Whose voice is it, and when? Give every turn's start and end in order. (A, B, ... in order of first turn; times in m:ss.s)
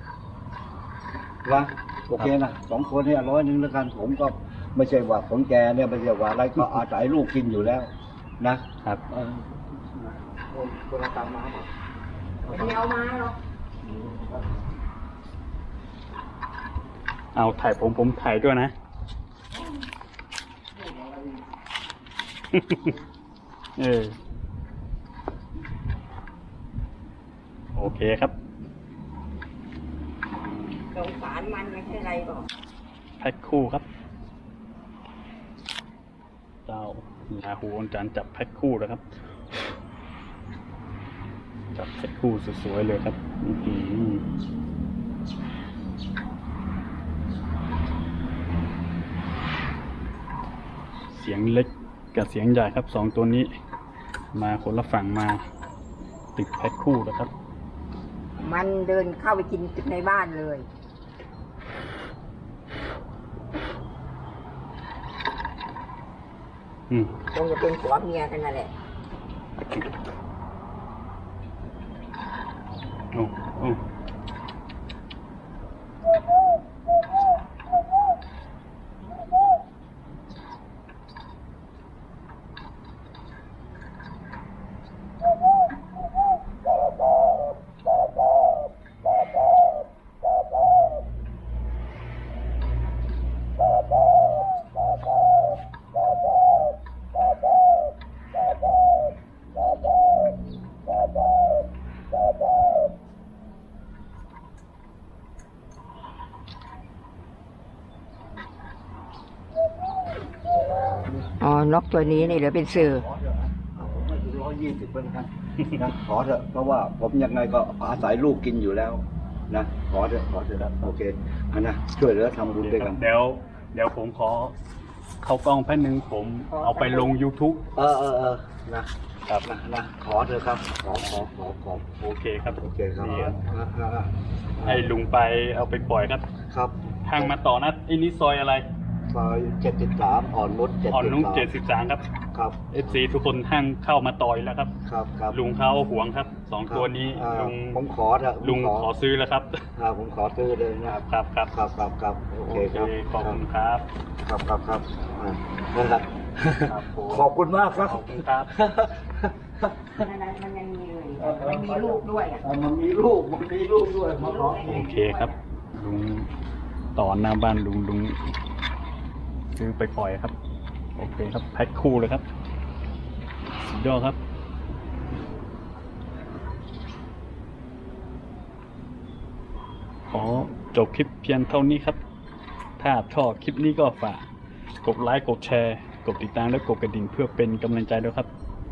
0:01.4-0:11.7 A
0:12.4-0:12.8 A
0:12.5-0:13.4 B
0:14.0-0:14.3 A
0:17.3-0:18.7 C
0:22.5-0:22.9 C
0:23.8-0:24.2 C
0:27.7-0:28.3 C
0:30.9-0:32.5 B
0:33.2-0:33.8 C
0:36.7-0:39.0 C
0:41.7-0:44.2 C
0:51.1-0:53.5 C
0:54.3-0:55.4 C
0:56.4-0:57.3 C
0:58.4-1:00.6 B
1:07.3-1:08.7 B
1:13.1-1:13.8 C
1:51.4-1:53.0 B
1:52.1-2:03.0 A
2:02.6-2:04.5 C
2:05.2-2:07.6 C
2:06.5-2:07.2 B
2:07.7-2:08.9 A
2:09.4-2:11.9 A
2:12.0-2:13.4 C
2:12.6-2:14.8 A
2:14.6-2:16.2 C
2:16.5-2:17.3 A
2:17.0-2:18.7 C
2:19.1-2:21.5 A
2:20.9-2:22.0 C
2:22.3-2:22.8 A
2:22.7-2:24.7 C
2:24.8-2:25.4 A
2:25.3-2:27.8 C
2:26.7-2:28.9 A
2:28.4-2:29.6 C
2:29.8-2:33.4 A
2:30.8-2:31.5 C
2:32.5-2:33.8 C
2:34.2-2:40.0 A
2:36.7-2:38.5 C
2:40.0-2:42.4 B
2:41.2-2:44.9 A
2:44.2-2:45.4 B
2:44.6-2:46.3 C
2:47.0-2:48.2 C
2:49.5-2:50.3 C
2:51.0-2:52.2 C
2:53.6-2:54.2 C
3:00.1-3:02.0 C
3:02.8-3:04.2 C
3:04.8-3:08.3 C